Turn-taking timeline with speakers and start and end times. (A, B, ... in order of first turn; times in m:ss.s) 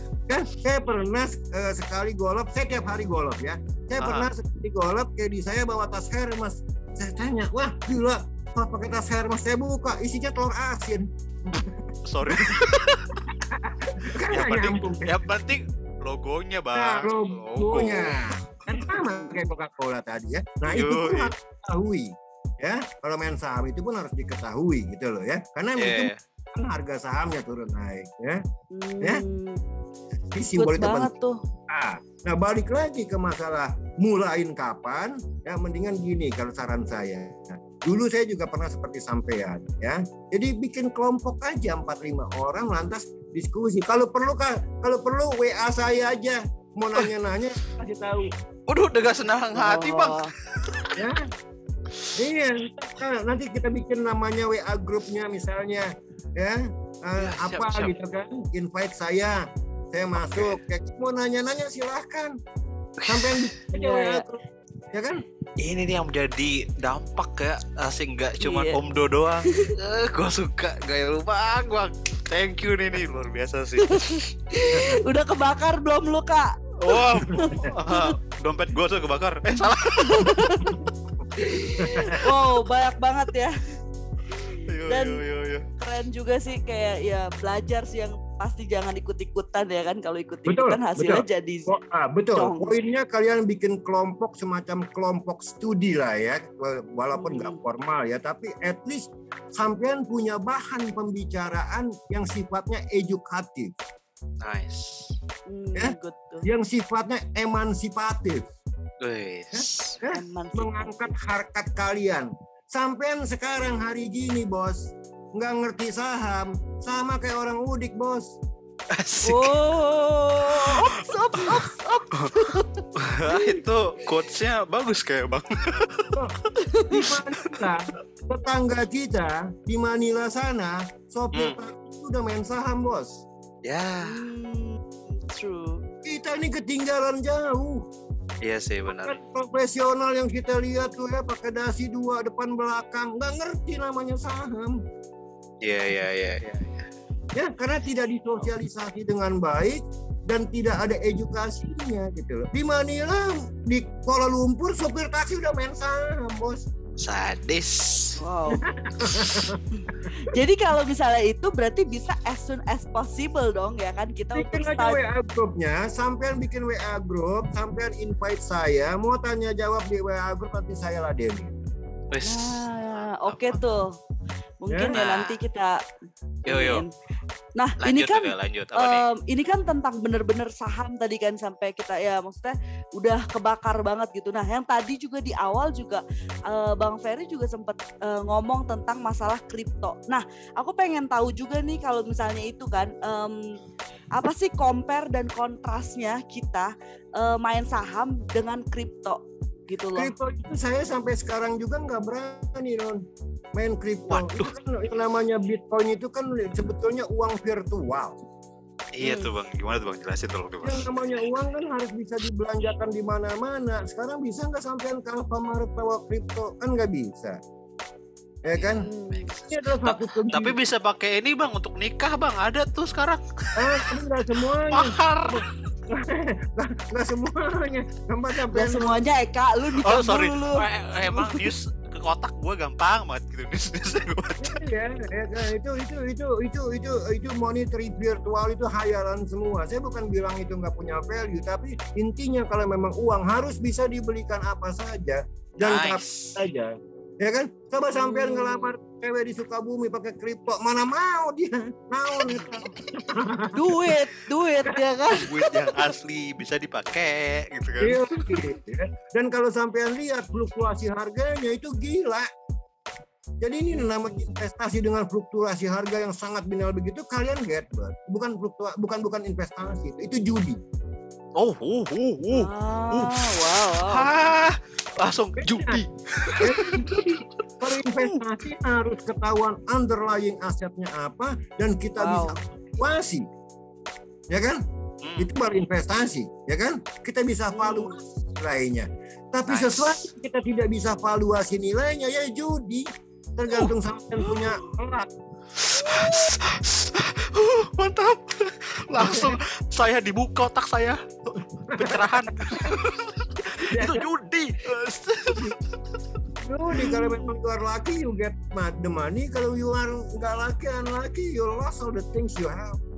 0:00.3-0:12.6 A
0:04.0-0:04.3 B
0:12.0-0:13.2 B
0:13.4-0:15.2 A
0:14.3-0:18.2 B
0:16.7-0:28.4 A
0:19.1-0:19.4 C
0:20.6-0:21.3 B
0:25.8-0:26.2 B
0:28.7-0:29.6 C
0:30.3-0:31.1 A
0:30.6-0:31.4 C
0:31.7-0:48.3 A
0:48.7-0:51.0 B
0:49.5-0:50.3 C
0:51.0-0:51.2 A
0:52.2-0:59.4 A
0:57.2-0:57.9 B
0:59.9-1:02.3 A
1:00.2-1:00.6 B
1:03.0-1:03.5 B
1:03.0-1:05.2 A
1:03.7-1:04.2 C
1:05.6-1:14.3 B
1:08.4-1:08.8 C
1:13.8-1:18.2 C
1:14.7-1:15.0 A
1:16.8-1:20.7 B
1:17.2-1:17.7 A
1:20.0-1:20.8 C
1:21.4-1:23.5 C
1:21.7-1:22.2 A
1:24.4-1:25.2 C
1:24.7-1:25.6 B
1:25.8-1:31.7 C
1:30.5-1:43.8 A
1:32.3-1:32.7 C
1:37.1-1:37.6 C
1:44.4-1:45.1 B
1:45.5-1:46.5 C
1:45.7-1:48.5 A
1:49.0-1:50.0 B
1:49.5-1:58.4 A
1:50.1-1:51.1 C
1:58.9-1:59.6 B
1:59.2-2:03.6 C
2:00.5-2:01.6 B
2:02.2-2:06.6 B
2:06.6-2:07.1 C
2:06.9-2:13.2 A
2:13.6-2:14.2 B
2:14.0-2:15.8 C
2:16.0-2:17.9 A
2:18.4-2:19.1 B
2:18.9-2:24.8 A
2:25.6-2:26.9 B
2:27.3-2:36.6 A
2:37.0-2:38.2 B
2:38.2-2:38.6 C
2:38.5-2:40.2 A
2:39.0-2:39.5 B
2:39.8-2:45.0 C
2:44.3-2:51.5 A
2:52.1-2:53.6 B
2:52.2-2:54.0 C
2:54.6-2:55.8 C
2:54.7-2:54.9 A
2:54.9-2:55.3 B
2:56.4-2:56.9 C
2:56.5-2:56.8 B
2:57.6-3:13.6 C
2:57.8-2:59.0 B
3:14.1-3:20.1 C
3:20.0-3:23.0 A
3:23.5-3:28.2 A
3:24.1-3:24.5 B
3:28.9-3:31.3 B
3:29.0-3:29.3 C
3:30.6-3:37.4 A
3:38.4-3:38.8 A
3:38.5-3:45.6 B
3:38.8-3:39.3 C
3:39.5-3:40.6 A
3:43.6-3:49.0 A
3:48.5-3:51.5 C
3:49.8-3:54.6 B
3:54.4-4:13.8 A
4:05.6-4:06.4 B
4:07.9-4:08.7 C
4:12.3-4:12.6 B
4:13.5-4:15.9 C
4:15.1-4:18.4 B
4:17.8-4:22.3 A
4:23.4-4:30.6 A
4:23.7-4:24.2 C
4:31.4-4:37.2 B
4:32.3-4:34.1 C
4:35.4-4:35.8 A
4:36.4-4:43.2 A
4:42.0-4:42.4 C
4:44.3-4:44.6 A
4:45.0-4:45.3 B
4:45.2-4:52.8 A
4:47.5-4:48.0 C
4:49.5-4:50.0 B
4:53.4-4:55.1 A
4:55.6-5:05.6 B
4:55.8-4:56.3 C
4:59.0-4:59.4 A
5:01.7-5:02.8 A
5:03.7-5:04.0 A
5:06.4-5:12.8 A
5:06.8-5:07.3 C